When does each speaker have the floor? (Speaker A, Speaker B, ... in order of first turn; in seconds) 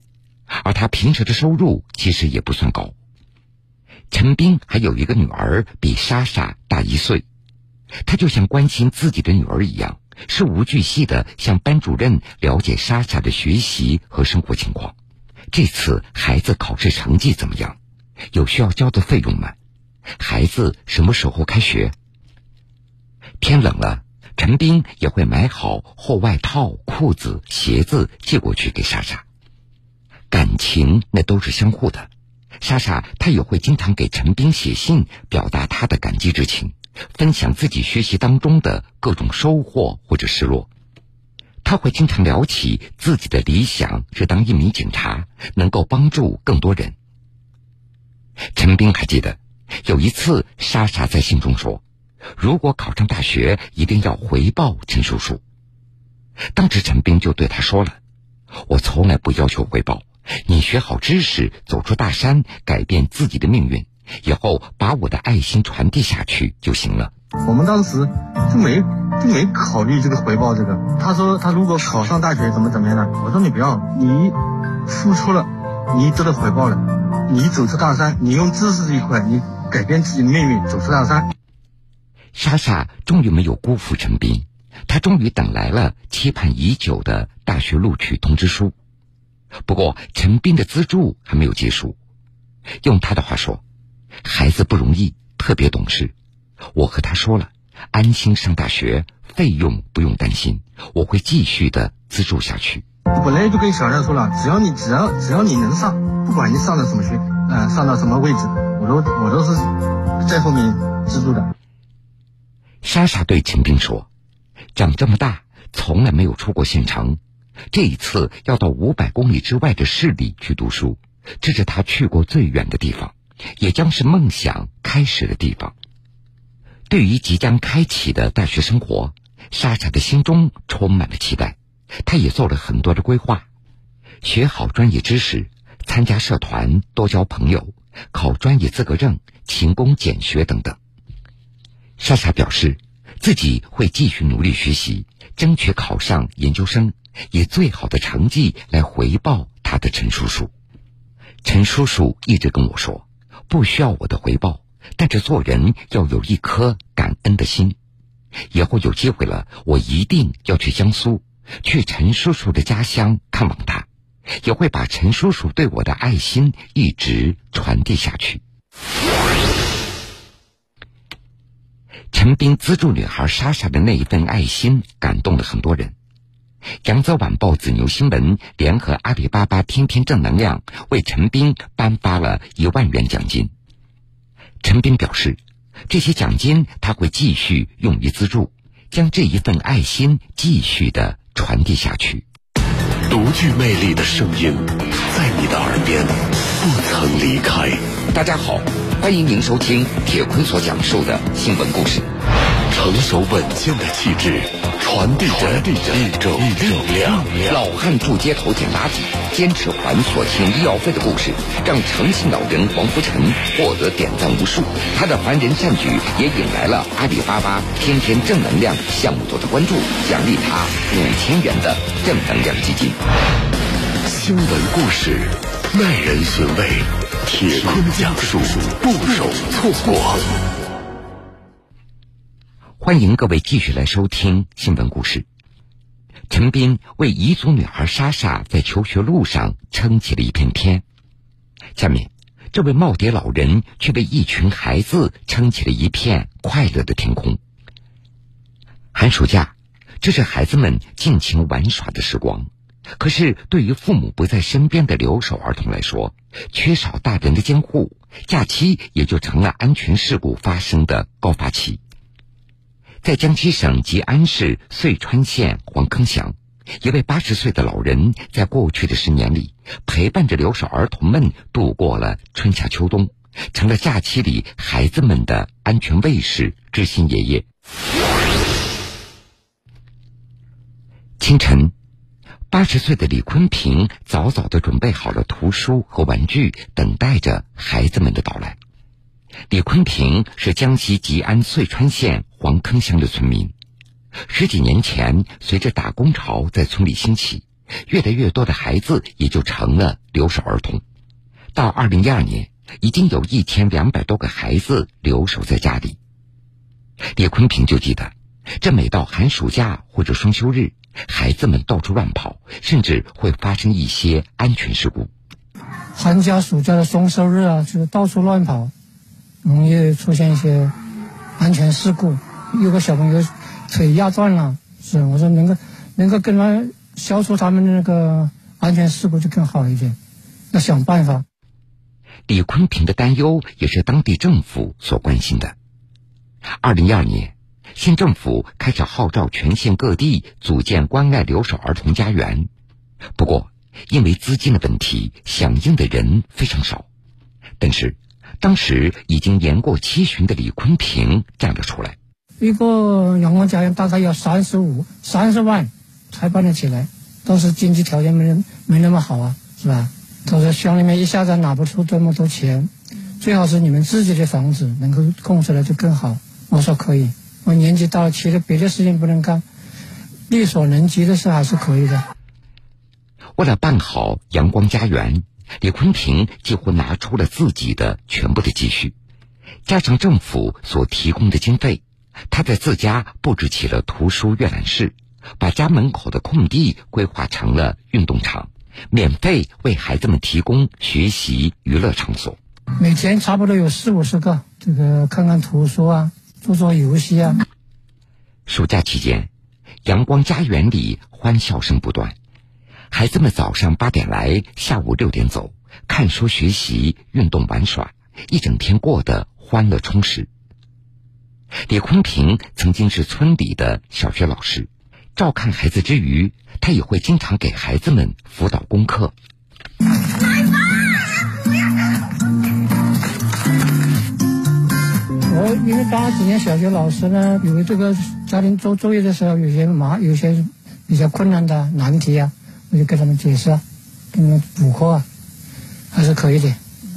Speaker A: 0.5-2.9, 4.1-7.2, 8.1-14.9, 15.5-17.8, 18.3-19.6, 20.2-21.9, 23.4-29.2, 30.3-32.1, 32.6-40.7, 41.6-47.0, 48.5-51.8, 52.4-55.4, 56.5-58.0, 58.7-67.1, 82.3-88.7, 89.7-92.0, 92.8-93.6, 94.2-96.1, 96.8-102.8, 112.8-114.1, 114.8-117.2, 117.7-125.7, 126.9-133.4, 134.2-140.8, 142.0-150.5, 151.4-157.8, 158.5-163.9, 164.4-168.4, 172.1-175.9, 176.8-183.5, 184.6-192.2, 198.1-202.1, 207.4-223.0, 232.8-235.2, 236.3-240.8, 241.8-247.4, 248.9-261.8, 263.0-277.4, 281.2-281.7, 282.5-288.6, 289.5-293.5, 294.3-300.8, 301.6-306.0, 307.2-315.1, 332.3-335.6, 336.6-342.5, 343.2-346.9, 347.6-352.0, 373.4-378.9, 379.7-392.4, 398.5-399.3, 399.9-402.1, 402.9-410.3, 411.7-419.1
Speaker B: 67.5-81.3, 103.1-109.7, 110.2-111.5
Speaker C: 193.1-197.8, 202.7-207.6, 224.1-230.3
Speaker D: 315.9-318.7, 319.4-320.7, 321.4-330.0, 330.5-331.2, 352.4-369.4, 370.3-372.0, 392.8-397.4, 425.3-433.6, 434.1-435.1, 435.9-436.6